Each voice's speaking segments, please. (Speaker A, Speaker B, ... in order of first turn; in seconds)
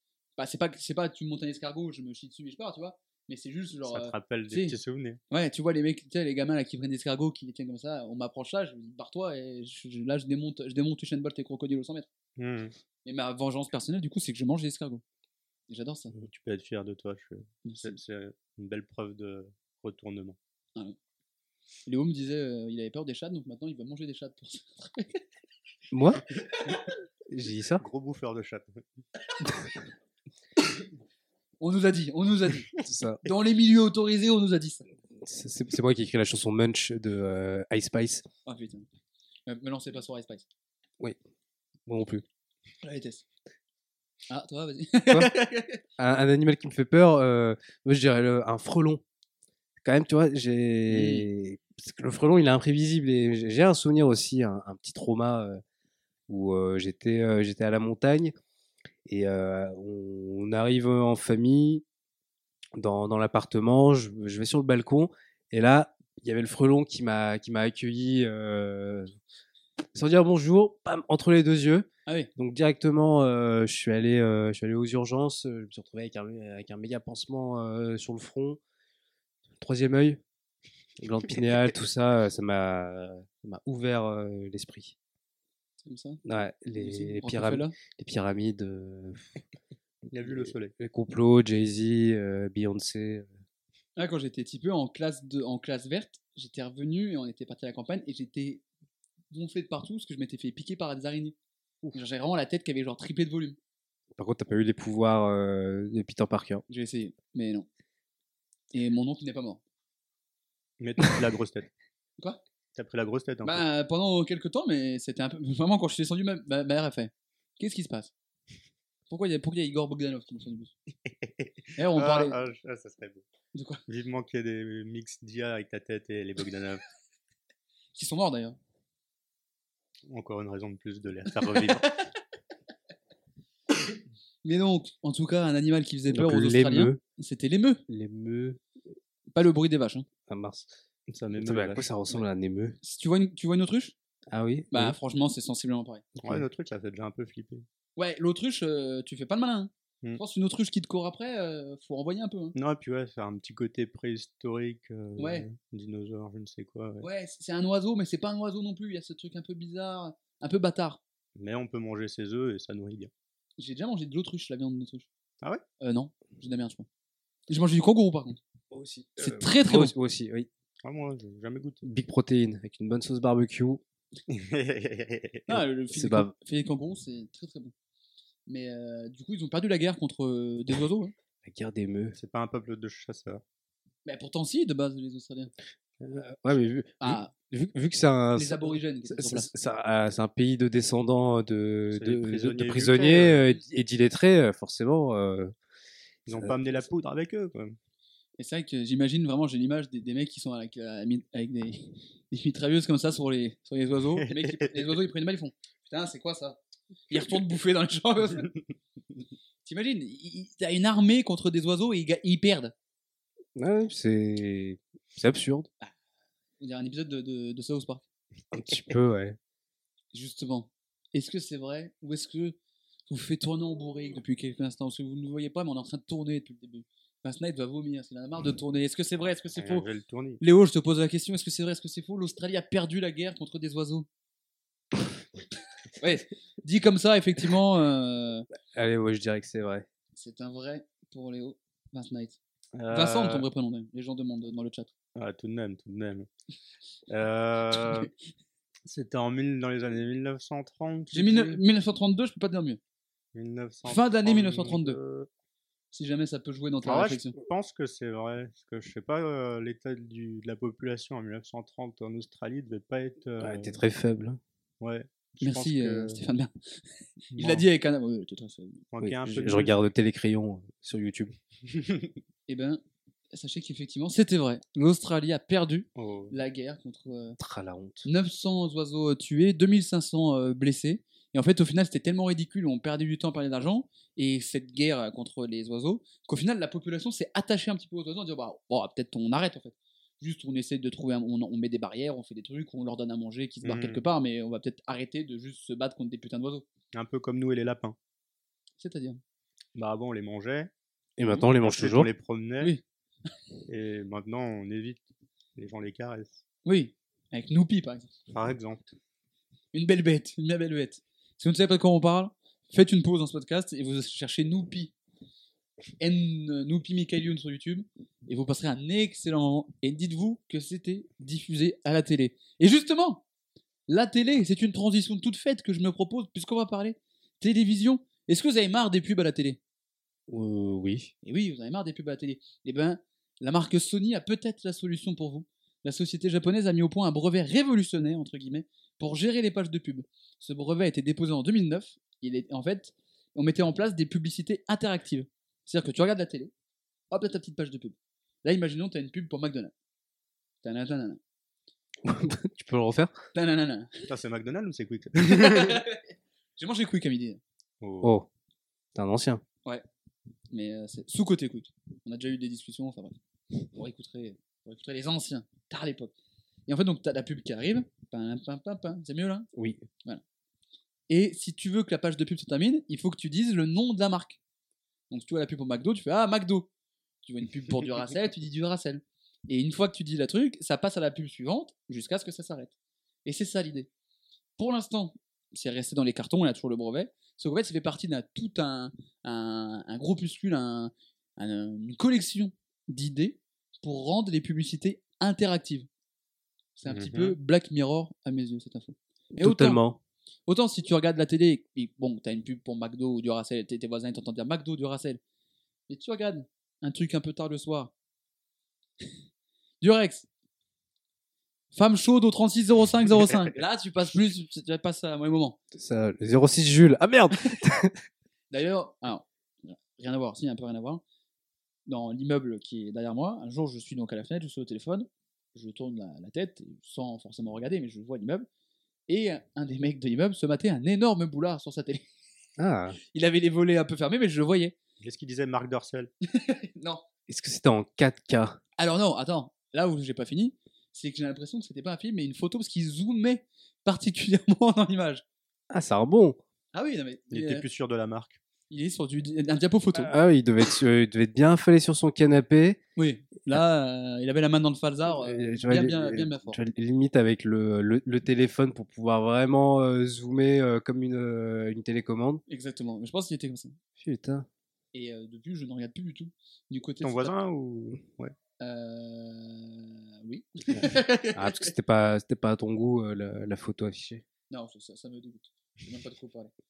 Speaker A: 0.4-4.8, 5.3-12.1, 13.1-15.0, 15.7-16.1, 17.6-18.0, 21.9-25.2, 31.6-34.9, 38.5-38.9, 39.5-40.5, 42.8-43.2, 44.3-45.8, 50.9-51.3, 85.8-86.2, 86.8-87.8, 94.0-98.6, 99.3-101.4, 101.9-103.6, 106.7-107.7, 108.7-109.6, 113.4-118.1, 119.1-120.7, 121.8-122.4, 123.5-123.8, 128.0-128.6, 131.4-132.1, 134.4-137.8, 139.3-140.1, 142.8-143.9, 144.7-146.1, 148.0-152.6, 155.2-155.5, 157.0-161.0, 163.6-165.1, 165.8-166.9, 167.5-168.4, 169.2-169.9, 175.5-177.7, 178.5-181.1, 184.1-185.5, 187.0-187.3, 188.3-189.5, 198.4-206.6, 207.1-208.5, 209.7-212.7, 216.6-218.0, 220.1-222.6, 223.1-229.9, 230.4-234.1, 236.0-238.5, 240.2-242.4, 242.9-244.9, 251.1-252.8, 253.9-255.0, 255.9-257.4, 265.4-266.8, 267.3-268.8, 272.5-277.4, 278.0-296.7, 298.8-299.2, 306.6-308.1, 309.7-314.9, 316.0-323.2, 323.9-329.6, 331.2-346.5, 347.1-349.7, 350.6-351.2, 353.3-354.1, 355.2-356.1, 356.6-357.4, 360.5-363.2, 363.8-366.1, 366.7-369.5, 371.1-374.4, 375.1-376.7, 377.2-382.7, 383.2-383.9, 384.6-395.9, 396.8-399.8, 400.5-405.2, 405.9-407.9, 409.8-410.3, 411.7-415.6, 418.5-421.0, 421.9-428.5, 429.1-432.1, 433.0-434.8, 436.3-437.1, 438.8-445.2, 446.7-447.6, 448.7-450.1, 453.0-456.6, 462.5-463.8, 464.9-467.4, 468.6-471.7, 474.5-476.5
Speaker B: 3.9-5.2, 12.4-12.7, 16.2-20.4, 27.8-28.8, 90.1-90.7, 110.8-111.7, 112.8-113.6, 121.1-123.2, 123.9-126.8, 130.1-131.9, 141.1-141.9, 146.2-147.7, 152.6-157.1, 161.4-163.1, 170.8-171.8, 174.3-175.4, 182.2-183.4, 191.9-193.4, 196.3-197.8, 204.2-204.8, 229.6-230.4, 242.8-243.5, 245.2-246.3, 247.1-248.1, 248.9-251.6, 253.3-255.3, 256.8-263.8, 264.8-266.2, 267.3-267.7, 268.9-269.8, 271.7-272.1, 276.0-276.3, 293.6-294.1, 296.9-298.0, 299.8-300.7, 301.5-302.8, 303.7-305.0, 305.6-306.4, 308.3-308.8, 354.1-355.8, 357.8-358.1, 396.9-397.4, 435.0-436.1, 447.3-448.4, 467.0-468.3
Speaker C: 25.9-26.2, 27.3-27.8, 32.8-33.3, 35.2-38.2, 41.9-42.2, 46.0-49.0, 49.8-55.6, 56.3-58.3, 59.1-61.8, 62.8-69.1, 69.9-78.6, 79.6-80.2, 81.0-85.0, 86.2-89.3, 90.8-93.3, 104.2-106.6, 136.1-137.0, 137.9-138.6, 140.3-140.7, 141.4-142.8, 144.3-145.0, 146.2-146.4, 168.7-170.5, 171.8-173.8, 175.5-176.3, 181.4-182.2, 186.0-195.5, 196.3-196.9, 213.6-215.7, 218.5-219.4, 238.7-239.9, 263.4-264.4, 269.0-271.4, 277.4-278.1, 301.2-302.1, 330.3-331.1, 352.0-353.2, 358.0-358.3, 358.9-359.4, 369.5-369.9, 399.4-400.0, 415.7-418.0, 432.6-433.0, 437.3-438.6, 445.7-446.4, 449.9-452.8, 455.1-462.4, 464.0-464.5, 471.3-474.2